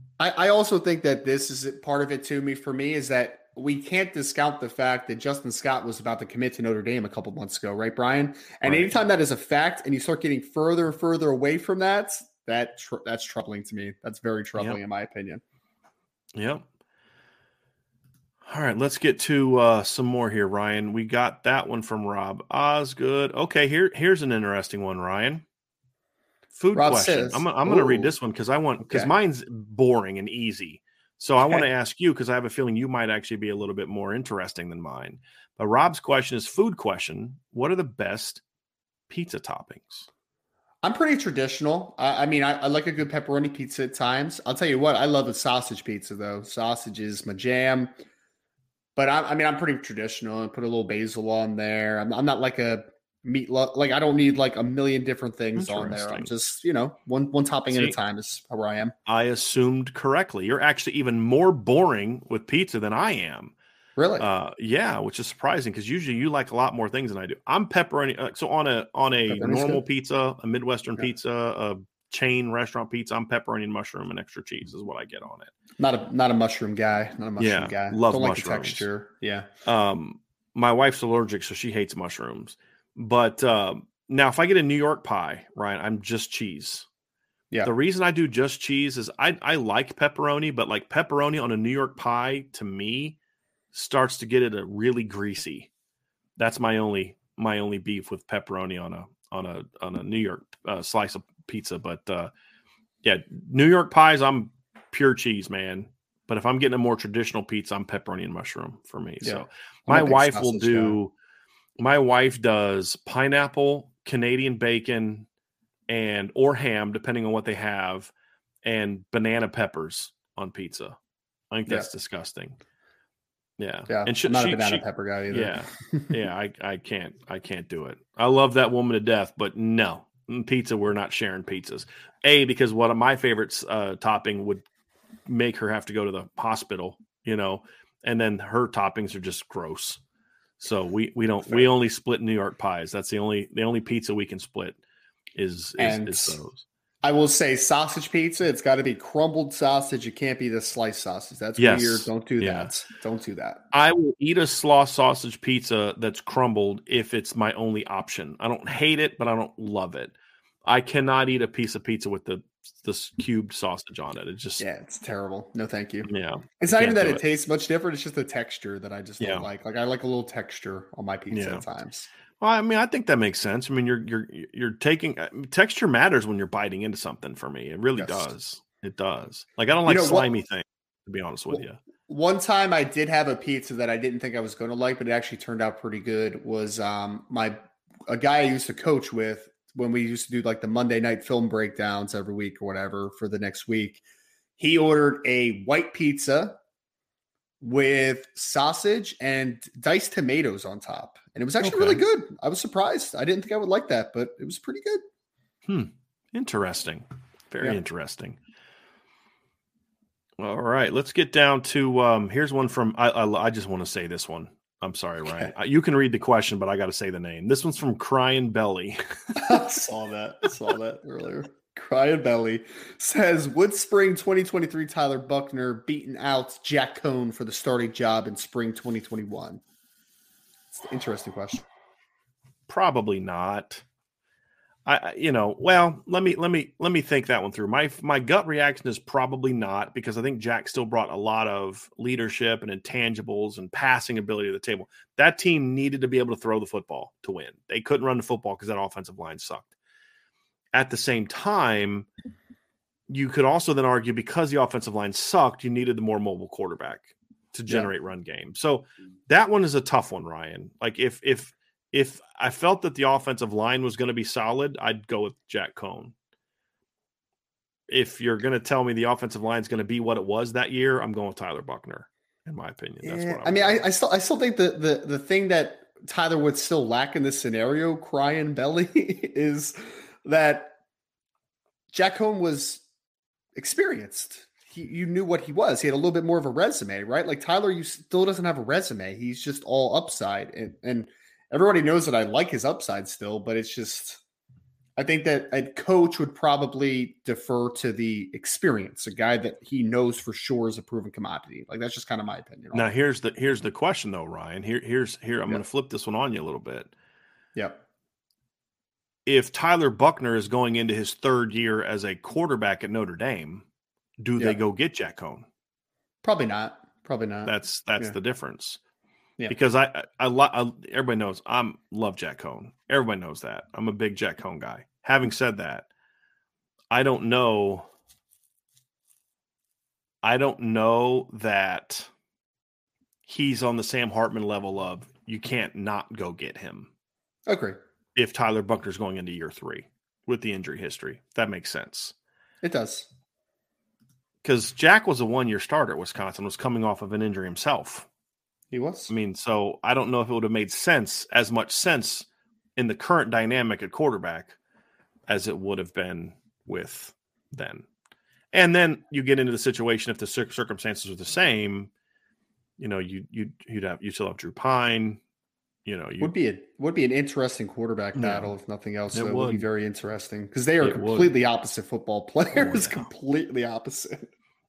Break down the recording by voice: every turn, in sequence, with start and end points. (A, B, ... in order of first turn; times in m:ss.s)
0:00.2-0:15.4 A
0:08.6-0:09.0 B
0:16.3-0:16.6 B
0:18.4-0:25.4 B
0:26.5-0:38.4 B
0:26.7-0:28.1 A
0:28.8-0:29.1 A
0:39.1-0:40.1 B
0:40.8-0:47.9 A
0:49.0-0:58.9 A
0:55.6-0:56.3 B
0:57.7-0:58.0 B
0:59.0-1:03.5 B
1:04.0-1:04.3 A
1:04.2-1:15.5 B
1:09.3-1:09.8 A
1:15.8-1:19.5 A
1:17.4-1:18.8 B
1:19.6-1:26.8 B
1:27.6-1:33.2 B
1:33.7-1:35.7 B
1:36.4-1:42.3 B
1:43.0-1:51.1 B
1:49.2-1:51.0 A
1:51.8-1:55.2 B
1:55.9-1:58.1 B
1:58.6-2:01.0 B
2:01.5-2:02.6 B
2:03.6-2:14.6 B
2:03.9-2:06.1 A
2:15.2-2:20.0 B
2:20.6-2:24.8 B
2:25.3-2:26.6 B
2:25.8-2:26.4 A
2:27.0-2:33.6 A
2:31.6-2:32.7 B
2:33.7-2:40.1 B
2:40.6-2:44.6 B
2:44.6-2:52.1 A
2:46.0-2:47.2 B
2:49.2-2:49.5 B
2:51.3-2:51.6 B
2:52.4-3:01.8 B
2:58.0-2:58.3 A
2:59.8-3:00.3 A
3:01.5-3:14.0 A
3:14.6-3:16.6 A
3:17.6-3:25.0 A
3:21.6-3:22.0 B
3:25.7-3:28.4 B
3:30.4-3:39.4 B
3:39.4-3:49.6 A
3:50.7-3:51.6 A
3:52.7-3:53.8 B
3:54.8-4:09.7 B
4:10.7-4:12.1 B
4:13.1-4:26.1 B
4:27.9-4:33.8 B
4:33.0-4:40.7 A
4:41.9-4:42.8 A
4:43.6-4:54.2 A
4:55.0-5:02.9 A
5:02.7-5:06.9 B
5:07.5-5:07.8 A
5:09.2-5:13.6 B
5:14.2-5:15.4 B
5:16.2-5:18.1 A
5:17.4-5:18.8 B
5:19.5-5:25.9 B
5:26.9-5:27.9 B
5:30.2-5:32.1 B
5:33.2-5:36.9 B
5:37.5-5:37.8 A
5:38.2-5:42.1 B
5:42.6-5:43.1 A
5:44.4-5:48.1 B
5:48.7-5:49.1 A
5:49.1-5:54.6 B
5:55.3-5:57.8 B
5:58.5-6:01.9 B
6:02.8-6:05.2 B
6:05.8-6:06.3 B
6:06.2-6:14.3 A
6:08.1-6:08.5 B
6:09.1-6:09.6 B
6:10.8-6:11.3 B
6:12.5-6:13.1 B